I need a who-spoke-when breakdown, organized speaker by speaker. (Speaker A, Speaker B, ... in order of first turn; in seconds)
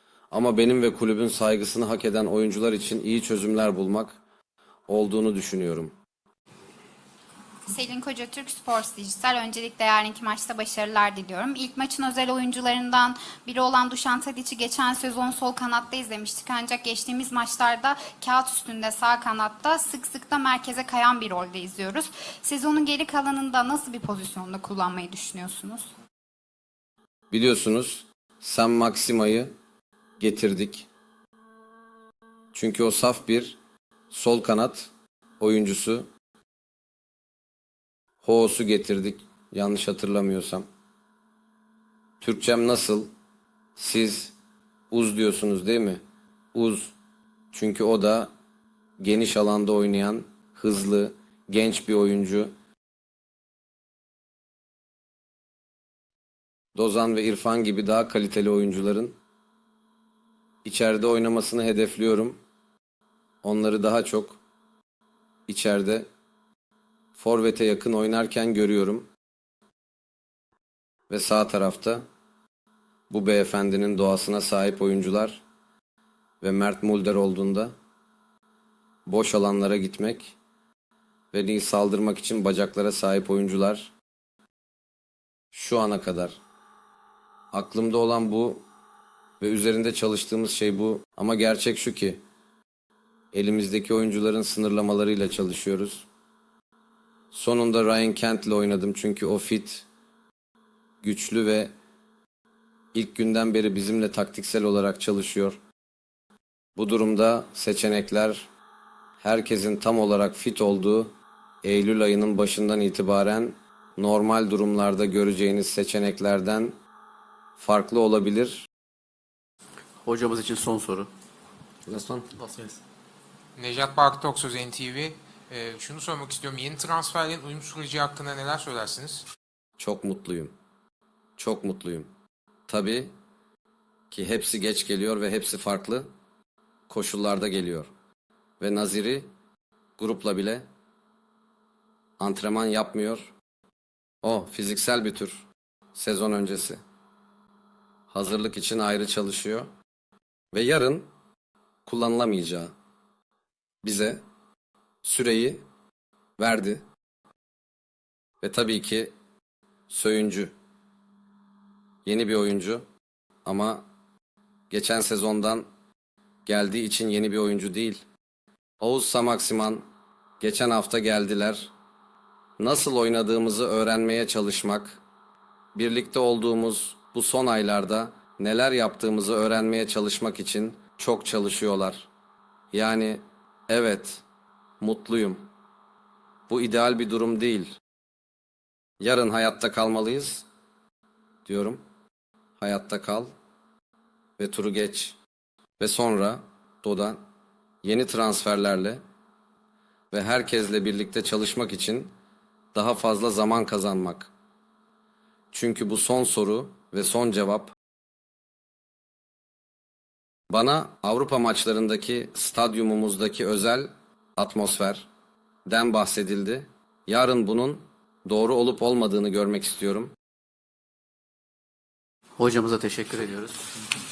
Speaker A: 0.3-4.2, 4.9-5.9, 27.3-29.5, 30.2-30.9, 32.5-33.6, 34.1-34.9, 35.4-36.1, 38.2-40.6, 42.2-43.1, 43.8-44.4, 44.9-46.0, 46.5-47.0, 47.5-48.3, 49.0-52.5, 56.8-59.2, 60.6-62.4, 63.4-64.4, 65.5-66.1, 67.1-69.1, 71.1-72.0, 73.1-75.4, 76.4-77.7, 79.1-80.4, 81.3-83.9, 85.5-86.4, 87.5-88.6, 89.4-92.2, 93.3-96.1, 97.3-99.9, 101.0-101.7, 102.9-105.6, 106.8-108.5, 109.2-116.8, 117.6-118.7, 121.9-122.3, 129.8-130.5, 131.4-132.1, 132.7-133.1, 134.1-136.1, 136.9-137.9, 138.6-139.3, 140.0-140.7, 142.2-143.3, 144.2-146.8, 148.1-149.7, 150.5-151.1, 151.9-152.7, 153.8-154.2, 155.0-155.6, 156.4-156.8, 158.4-159.1, 159.9-160.5, 162.1-162.8, 163.4-163.9, 164.7-165.7, 166.5-168.0, 168.8-169.8, 170.4-171.7, 172.6-175.0, 175.8-182.1, 182.7-184.2, 184.8-185.5, 186.5-187.8, 189.0-190.5, 191.5-191.8, 192.6-193.3, 194.4-195.2, 195.8-197.2, 197.8-199.0, 200.1-202.1, 202.7-204.3, 205.5-207.8, 210.5-215.1, 215.7-220.1
Speaker B: 7.7-25.9
Speaker C: 120.0-121.1, 122.4-122.8, 222.4-223.6
Speaker D: 123.6-129.3